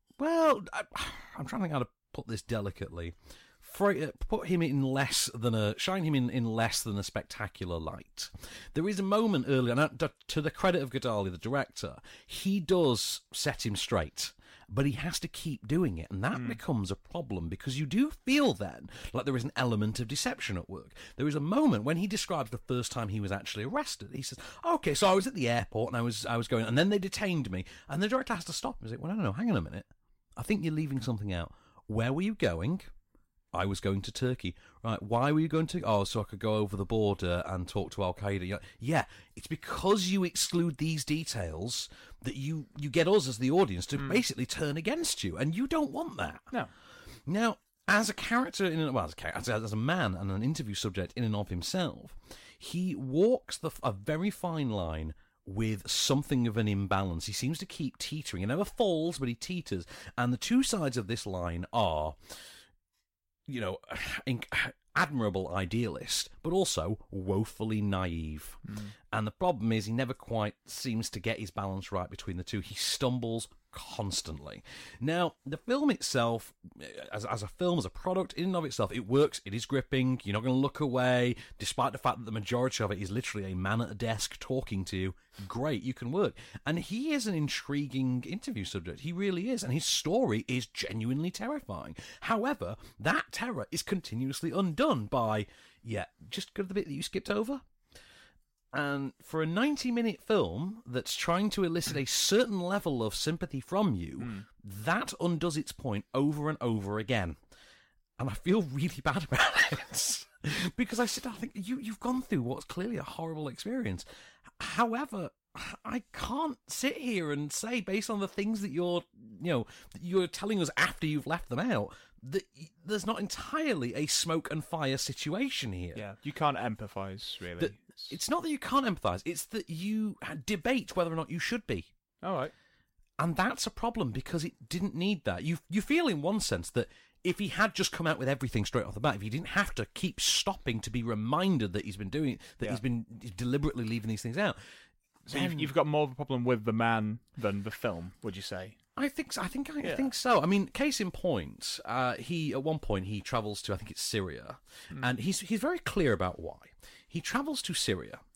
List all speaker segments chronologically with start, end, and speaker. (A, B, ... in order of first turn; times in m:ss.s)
0:00.2-0:32.9 A
0:16.3-0:16.6 B
0:33.5-0:46.5 A
0:44.0-0:44.2 B
0:47.3-1:02.2 A
1:03.5-1:37.6 A
1:08.7-1:08.9 B
1:38.7-1:47.4 A
1:44.2-1:44.5 B
1:48.2-1:54.1 A
1:54.6-2:06.0 A
2:06.0-2:08.1 B
2:07.6-2:11.9 A
2:12.2-2:12.5 B
2:13.2-2:24.6 A
2:25.3-2:28.8 B
2:25.3-2:25.7 A
2:29.0-2:38.2 A
2:29.8-2:30.1 B